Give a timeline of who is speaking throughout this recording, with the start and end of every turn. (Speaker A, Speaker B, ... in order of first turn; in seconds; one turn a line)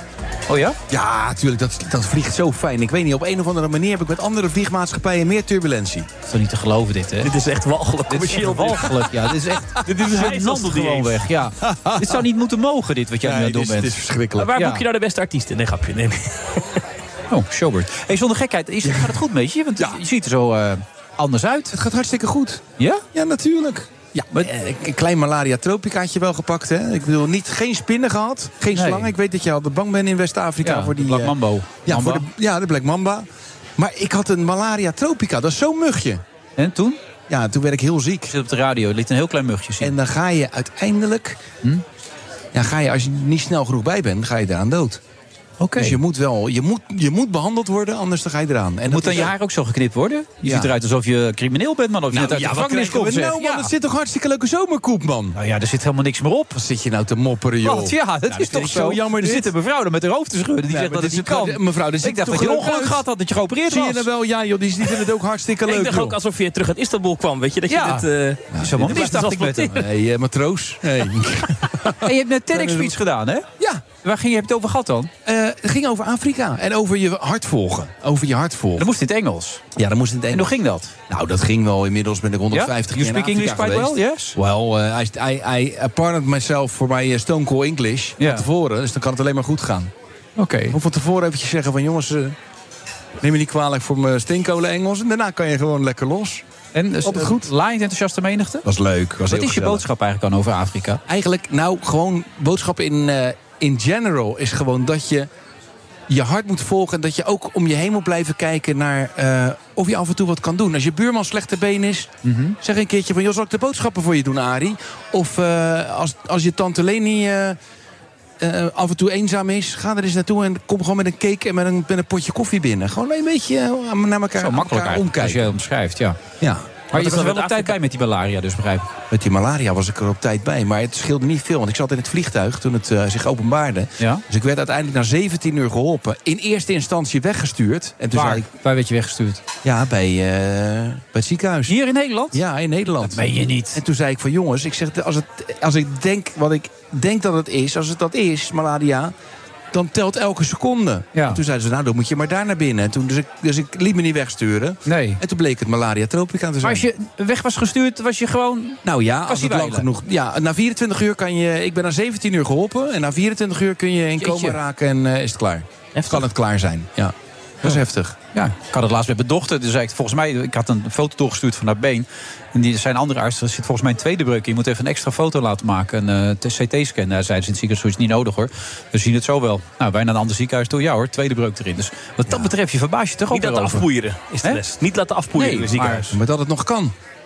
Speaker A: 0.5-0.8
Speaker B: 0.9-6.1
Speaker A: 6.3-7.3
Speaker C: 7.2-9.1
Speaker A: 8.1-14.0
Speaker C: 9.8-11.2
Speaker B: 11.7-12.2
Speaker B: 13.2-14.5
Speaker C: 14.4-16.8
Speaker A: 14.6-14.8
Speaker A: 17.3-21.7
Speaker B: 18.9-19.1
Speaker B: 21.7-31.3
Speaker A: 22.8-23.1
Speaker A: 28.8-29.1
Speaker A: 30.6-32.2
Speaker B: 31.9-36.2
Speaker A: 36.6-37.0
Speaker B: 37.3-38.3
Speaker A: 38.3-39.9
Speaker B: 39.8-41.4
Speaker B: 42.5-45.0
Speaker A: 45.6-46.0
Speaker B: 45.8-49.3
Speaker A: 48.9-53.7
Speaker B: 50.4-50.7
Speaker B: 52.1-55.4
Speaker A: 55.4-56.5
Speaker B: 56.5-59.5
Speaker A: 57.6-64.1
Speaker B: 60.7-63.0
Speaker B: 63.6-66.2
Speaker C: 65.7-69.9
Speaker A: 67.7-68.1
Speaker B: 68.5-69.0
Speaker A: 68.6-69.8
Speaker B: 69.8-72.9
Speaker A: 72.0-73.5
Speaker A: 74.0-75.1
Speaker B: 75.3-78.9
Speaker A: 78.8-79.7
Speaker B: 79.8-80.5
Speaker A: 80.3-81.0
Speaker B: 81.1-89.9
Speaker A: 82.5-84.4
Speaker A: 88.2-88.5
Speaker A: 90.4-90.8
Speaker B: 90.7-92.3
Speaker B: 93.2-96.5
Speaker A: 96.7-98.6
Speaker B: 97.0-97.5
Speaker B: 98.7-99.8
Speaker A: 99.3-101.0
Speaker B: 101.1-105.3
Speaker B: 106.1-117.6
Speaker A: 112.2-112.6
Speaker B: 118.4-125.5
Speaker A: 124.4-126.2
Speaker A: 126.9-128.9
Speaker C: 126.9-127.8
Speaker B: 129.1-138.5
Speaker A: 138.1-139.4
Speaker B: 139.6-141.7
Speaker A: 141.7-142.4
Speaker B: 142.3-149.1
Speaker A: 143.0-143.8
Speaker B: 149.7-156.8
Speaker A: 151.1-151.4
Speaker A: 154.9-155.2
Speaker A: 156.6-159.9
Speaker B: 158.8-168.2
Speaker A: 164.2-164.6
Speaker A: 168.3-183.9
Speaker C: 183.3-186.1
Speaker A: 185.3-186.1
Speaker B: 186.1-186.9